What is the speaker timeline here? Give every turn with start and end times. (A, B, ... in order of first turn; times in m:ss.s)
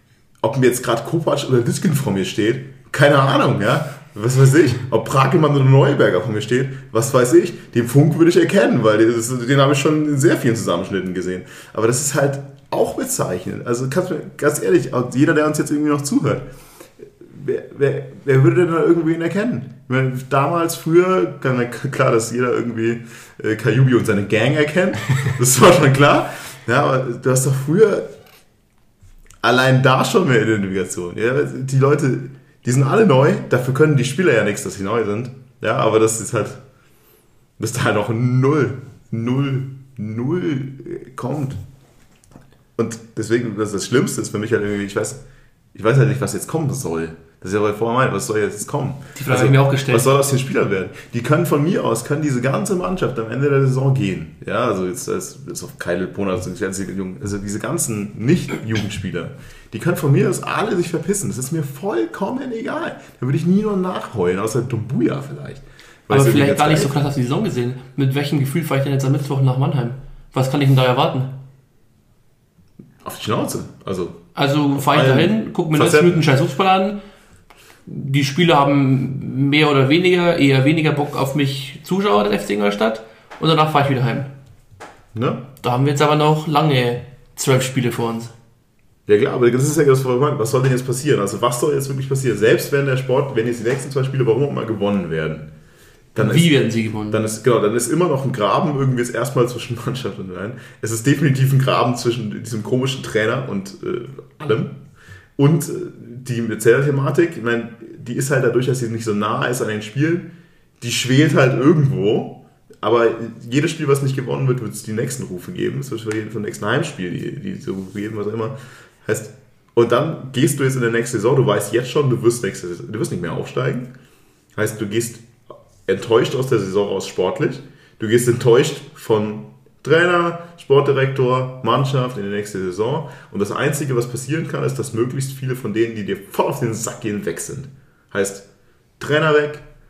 0:00.4-0:16.5 A
0:17.2-0:28.1 A
0:29.4-0:36.6 A
0:37.6-0:41.6 A
0:42.8-0:45.2 A
0:45.7-1:07.0 A
0:49.2-0:50.1 B
1:06.1-1:11.4 B
1:13.0-1:16.2 A
1:14.3-1:17.0 B
1:17.9-1:24.3 B
1:25.1-1:25.4 A
1:25.6-1:28.3 B
1:29.1-1:35.5 A
1:36.1-1:36.6 A
1:36.2-1:37.2 B
1:37.1-1:44.8 A
1:45.4-1:50.3 A
1:50.8-2:03.9 A
2:04.5-2:05.2 A
2:05.8-2:18.4 A
2:19.0-2:19.6 A